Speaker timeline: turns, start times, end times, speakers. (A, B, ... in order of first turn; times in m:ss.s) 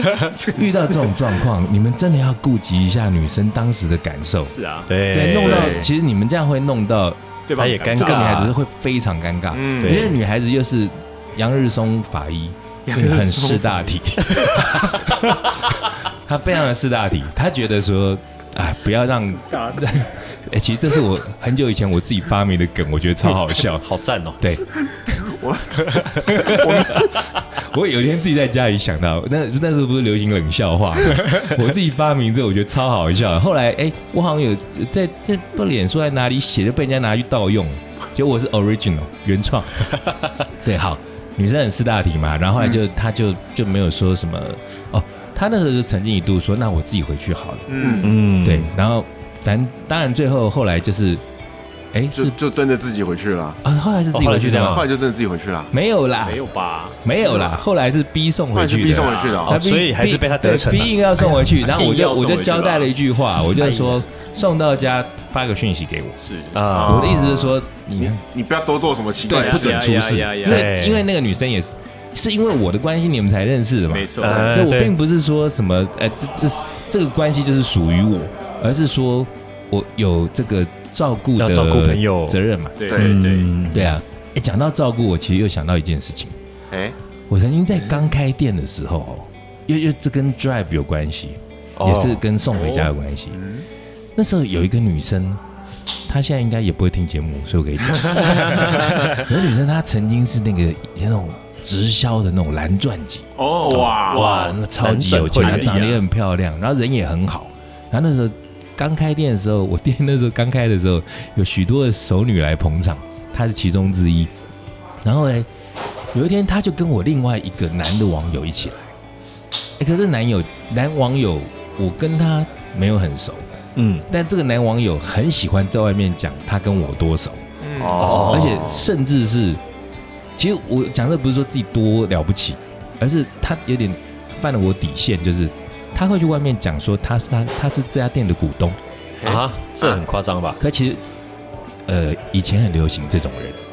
0:00.5-0:04.5 A
0:04.5-0:04.9 B
0:04.9-0:05.9 C
0:05.1-0:07.2 A
0:05.4-0:05.9 D
0:07.5-0:08.4 B
0:07.6-0:08.6 C
0:07.9-0:23.9 A
0:09.5-0:10.0 B
0:09.8-0:10.2 C
0:12.8-0:14.6 B
0:14.4-0:15.1 C
0:19.5-0:19.8 B
0:23.7-0:24.4 C
0:24.4-0:25.3 A
0:25.1-0:27.0 D
0:25.9-0:27.1 C
0:26.2-0:39.9 A
0:40.6-0:51.2 A
0:47.7-0:48.2 D
0:48.0-0:48.7 C
0:51.9-0:52.4 A
0:52.1-0:53.6 D
0:53.6-0:54.8 A
0:54.1-0:54.9 C
0:54.6-0:55.7 D
0:55.7-0:56.4 A
0:56.2-0:57.0 B
0:57.0-1:06.2 A
0:57.2-0:57.6 D
0:58.5-0:59.6 D
0:58.9-0:59.4 B
0:59.4-1:01.5 C
1:01.7-1:02.9 B
1:03.6-1:04.0 B
1:06.2-1:06.6 B
1:06.5-1:07.5 C
1:06.7-1:10.0 D
1:06.8-1:08.2 A
1:09.3-1:22.8 A
1:09.3-1:10.7 B
1:10.4-1:11.1 C
1:13.9-1:14.6 B
1:14.2-1:14.9 C
1:21.4-1:22.4 C
1:22.8-1:23.5 B
1:22.9-1:23.2 D
1:22.9-1:24.0 C
1:23.7-1:26.3 A
1:26.7-1:27.0 D
1:27.3-1:33.4 A
1:31.8-1:32.2 C
1:32.5-1:32.9 B
1:33.3-1:33.6 D
1:34.2-1:35.4 A
1:36.1-1:54.3 A
1:43.4-1:44.3 D
1:43.7-1:44.0 B
1:43.7-1:45.9 C
1:45.4-1:46.0 B
1:55.0-1:55.5 A
1:56.1-1:58.9 A
1:59.8-2:03.5 A
2:03.8-2:04.0 C
2:04.1-2:07.4 A
2:07.6-2:08.2 B
2:07.8-2:08.8 D
2:08.0-2:08.8 C
2:08.2-2:09.6 A
2:10.4-2:18.8 A
2:19.2-2:19.4 B
2:19.2-2:20.6 C
2:20.6-2:21.0 A
2:21.9-2:23.6 A